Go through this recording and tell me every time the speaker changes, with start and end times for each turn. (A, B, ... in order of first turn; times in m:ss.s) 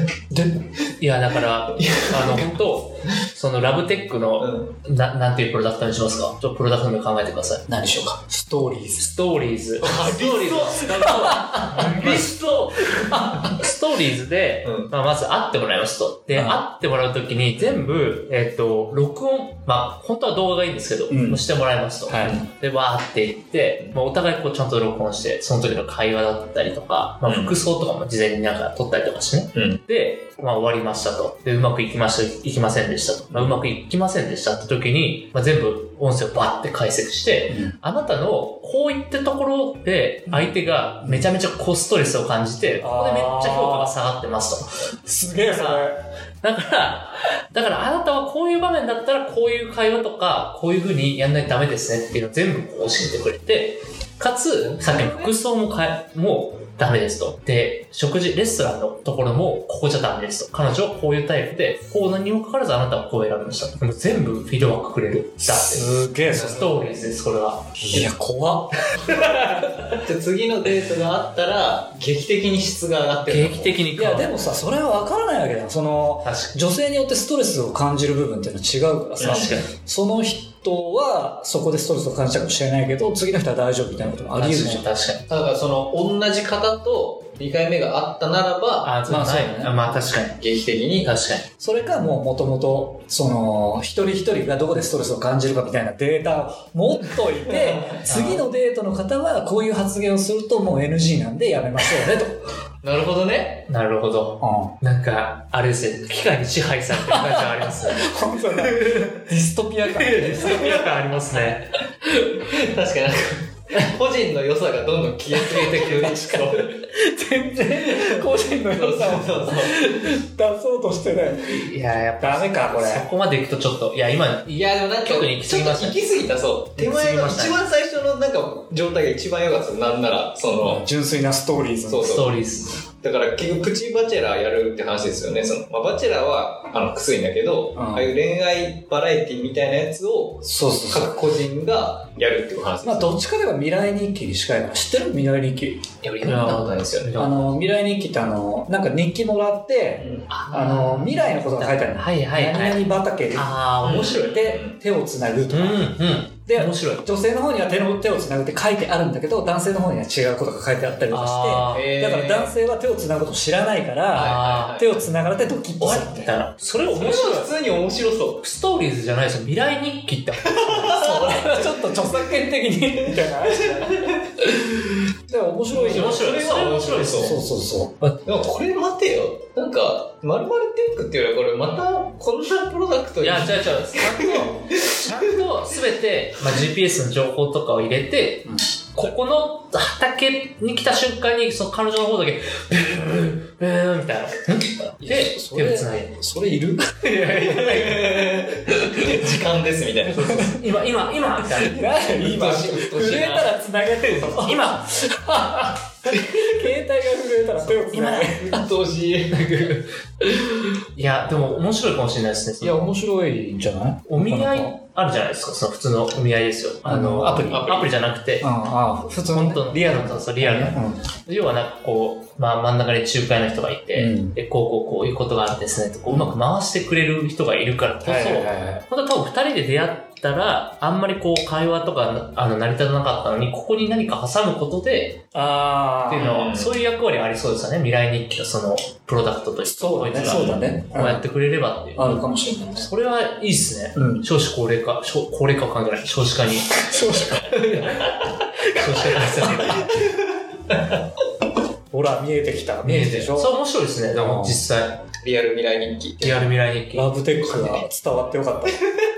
0:00.3-0:00.6 A
0:01.0-0:07.7 B
0:01.8-0:02.5 C
0:04.4-0:04.7 C
0:07.7-0:09.1 A
0:09.0-0:44.8 B
0:09.8-0:10.9 C
0:10.7-0:12.3 A
0:12.9-0:13.5 A
0:14.6-0:14.9 C
0:16.3-0:16.6 A
0:21.1-0:21.5 A
0:22.1-0:22.4 A
0:27.2-0:27.6 C
0:29.5-0:29.8 C
0:33.3-0:33.7 C
0:37.5-0:37.8 A
0:41.0-0:41.3 A
0:42.8-0:44.0 A
0:45.0-0:46.0 A
0:45.4-0:45.9 B
0:46.4-1:07.7 B
0:54.7-0:55.4 A
1:05.4-1:06.8 A
1:07.8-1:09.3 A
1:09.4-1:09.8 B
1:10.0-1:13.8 C
1:13.3-1:14.3 B
1:13.9-1:24.9 A
1:16.2-1:16.6 B
1:19.2-1:19.7 B
1:19.2-1:19.6 C
1:24.4-1:25.3 B
1:25.3-1:29.0 C
1:28.8-1:30.4 B
1:29.1-1:29.9 A
1:30.3-1:31.1 C
1:31.0-1:31.4 B
1:31.6-1:42.4 A
1:37.6-1:38.0 C
1:38.1-1:38.5 B
1:42.8-1:43.7 C
1:43.7-1:48.0 B
1:44.4-1:44.8 A
1:46.9-1:50.6 A
1:49.9-1:51.8 B
1:50.4-1:51.1 C
1:52.0-1:56.7 C
1:55.3-1:56.5 B
1:56.0-2:01.7 A
1:57.9-1:59.9 C
2:01.4-2:06.1 B
2:02.2-2:03.1 A
2:04.5-2:10.8 C
2:06.8-2:07.6 B
2:10.6-2:12.2 A
2:11.9-2:12.4 C
2:12.0-2:12.7 B
2:12.9-2:23.2 C
2:17.8-2:18.1 A
2:20.4-2:21.2 A
2:22.8-2:25.8 A
2:26.0-2:27.5 B
2:26.2-2:27.1 C
2:27.2-2:33.5 A
2:30.0-2:30.2 C
2:30.3-2:32.8 B
2:33.4-2:34.4 B
2:33.8-2:34.8 C
2:34.2-2:46.4 A
2:35.5-2:37.0 B
2:41.1-2:41.9 B
2:41.7-2:42.5 C
2:44.1-2:45.1 C
2:44.1-2:44.8 B
2:45.8-2:47.5 B
2:46.9-2:48.4 C
2:48.4-2:51.6 B
2:50.5-2:51.5 C
2:50.9-2:54.2 A
2:53.2-2:54.5 C
2:55.3-2:56.2 A
2:55.7-2:57.4 C
2:55.8-2:57.5 B
2:57.2-2:58.0 A
2:58.2-3:05.4 C
3:03.2-3:16.2 B
3:15.0-3:17.6 A
3:17.0-3:18.1 B
3:17.4-3:20.4 C
3:20.1-3:21.9 B
3:20.2-3:20.6 A
3:21.4-3:28.6 A
3:22.0-3:23.6 C
3:24.1-3:25.0 B
3:27.6-3:28.5 B
3:28.4-3:29.6 C
3:29.3-3:29.9 B
3:30.6-3:32.9 B
3:32.6-3:34.8 A
3:34.1-3:38.5 B
3:36.9-3:37.9 A
3:37.5-3:37.9 C
3:38.4-3:41.0 A
3:39.3-3:55.3 B
3:44.0-3:44.4 A
3:46.1-3:46.4 A
3:48.0-3:48.8 A
3:55.3-3:56.4 A
3:56.0-4:02.2 B
3:56.2-3:56.8 C
3:59.7-4:01.3 A
4:00.2-4:00.7 C
4:02.0-4:02.9 A
4:02.8-4:06.8 B
4:04.0-4:04.3 A
4:06.8-4:07.5 A
4:07.7-4:08.3 C
4:07.8-4:08.0 B
4:08.6-4:10.0 B
4:09.2-4:11.0 C
4:09.2-4:09.8 A
4:11.9-4:13.6 A
4:12.8-4:15.0 B
4:14.1-4:14.6 A
4:15.2-4:16.5 C
4:16.2-4:17.1 B
4:16.9-4:18.8 A
4:17.5-4:17.8 C